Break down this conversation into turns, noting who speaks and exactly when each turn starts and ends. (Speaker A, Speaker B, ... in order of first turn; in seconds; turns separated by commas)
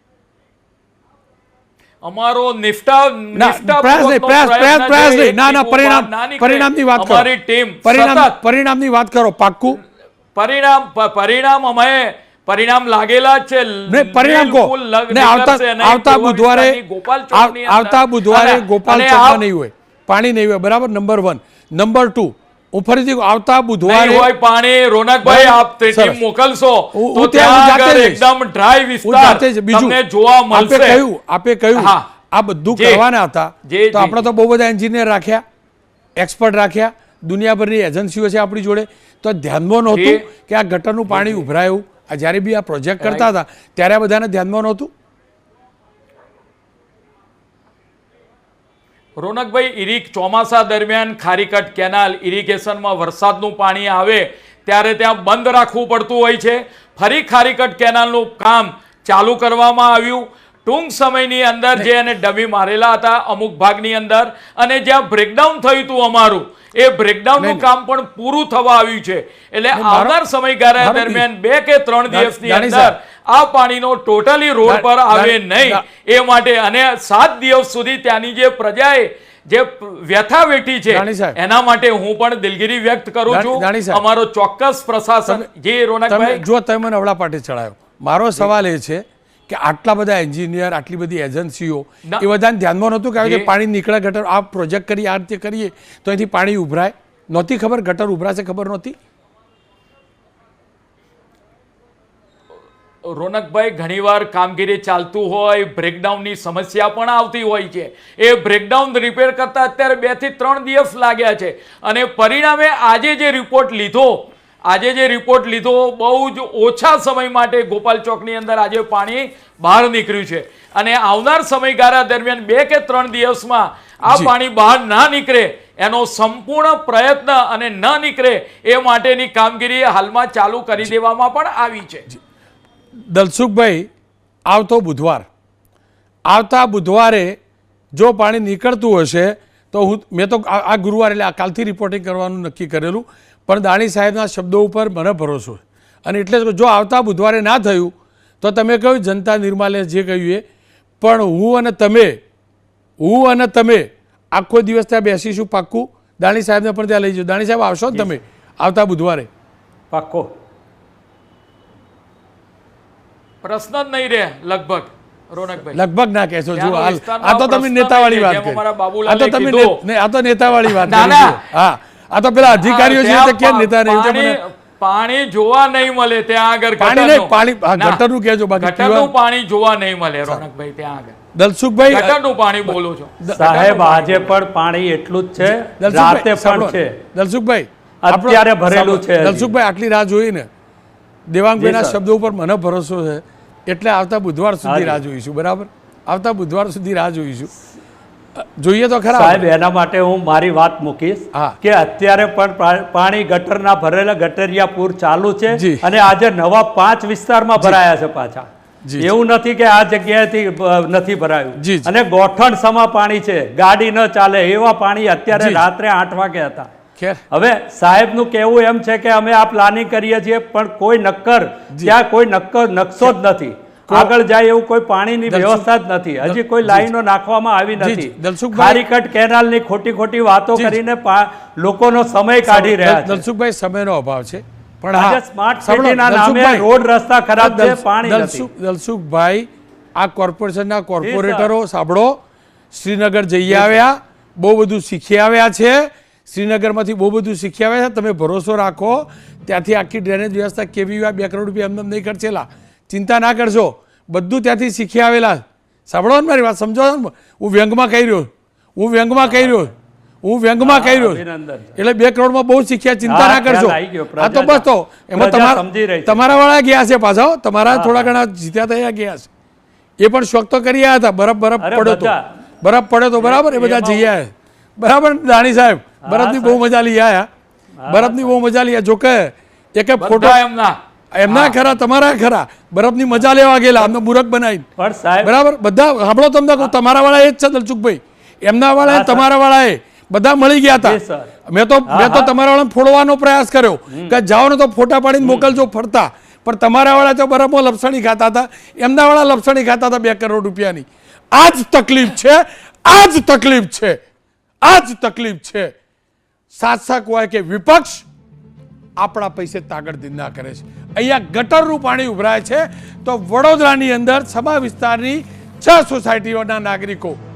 Speaker A: 2.0-8.3, Speaker B: 3.3-7.3, Speaker B: 7.8-9.8, Speaker A: 10.4-19.4, Speaker B: 13.9-16.8, Speaker B: 17.3-24.3, Speaker A: 23.9-31.0, Speaker B: 25.2-26.2, Speaker B: 26.9-28.2, Speaker B: 29.0-30.0, Speaker B: 30.5-35.4, Speaker A: 31.8-32.0, Speaker A: 32.7-33.0, Speaker A: 33.7-34.2, Speaker B: 36.2-44.9, Speaker A: 39.9-40.2, Speaker A: 41.1-41.5, Speaker A: 43.0-43.3, Speaker A: 49.2-86.4, Speaker B: 67.4-67.7, Speaker B: 69.7-70.2, Speaker B: 70.8-71.3, Speaker B: 72.1-72.9, Speaker B: 74.7-75.8, Speaker B: 80.9-81.4, Speaker B: 83.3-84.0, Speaker B: 86.1-99.0, Speaker A: 93.2-93.5, Speaker A: 103.1-132.1, Speaker B: 124.1-124.3, Speaker B: 133.1-133.9, Speaker B: 134.5-135.3, Speaker B: 136.3-137.4, Speaker B: 137.9-150.4, Speaker B: 151.0-152.2, Speaker B: 153.0-159.3, Speaker C: 159.9-160.3, Speaker A: 163.4-165.8, Speaker B: 165.7-174.4, Speaker A: 166.5-169.8, Speaker A: 170.7-171.4, Speaker A: 172.5-178.0, Speaker B: 176.8-179.1, Speaker A: 178.6-181.1, Speaker B: 181.3-183.4, Speaker A: 181.9-184.3, Speaker C: 183.3-186.9, Speaker B: 185.4-190.5, Speaker C: 188.1-189.5, Speaker B: 191.3-197.5, Speaker C: 191.6-192.0, Speaker C: 194.7-195.0, Speaker B: 198.4-199.4, Speaker C: 199.1-208.5, Speaker B: 205.5-205.8, Speaker C: 209.0-216.7, Speaker B: 211.6-211.9, Speaker B: 215.3-215.6, Speaker B: 217.0-217.2, Speaker C: 217.3-233.2, Speaker B: 225.3-225.7, Speaker B: 226.2-226.9, Speaker B: 227.8-228.8, Speaker B: 232.4-236.7, Speaker C: 234.9-238.5, Speaker B: 237.4-242.2, Speaker C: 241.0-241.5, Speaker B: 242.7-259.7, Speaker C: 243.5-243.8, Speaker C: 259.3-259.5, Speaker B: 260.2-261.2, Speaker C: 260.6-261.8, Speaker B: 261.8-269.3, Speaker C: 263.1-266.2, Speaker C: 267.7-268.1, Speaker B: 270.0-277.3, Speaker C: 271.6-272.2, Speaker C: 273.2-274.1, Speaker C: 276.1-276.6, Speaker C: 277.8-278.4, Speaker B: 277.9-280.4, Speaker A: 280.0-280.8, Speaker B: 281.1-284.7, Speaker C: 281.3-281.6, Speaker C: 284.8-285.3, Speaker B: 285.2-304.0, Speaker C: 288.9-289.3, Speaker C: 290.8-291.3, Speaker C: 291.9-292.3, Speaker A: 295.2-295.5, Speaker B: 304.6-305.7, Speaker B: 306.6-308.1, Speaker B: 309.0-317.2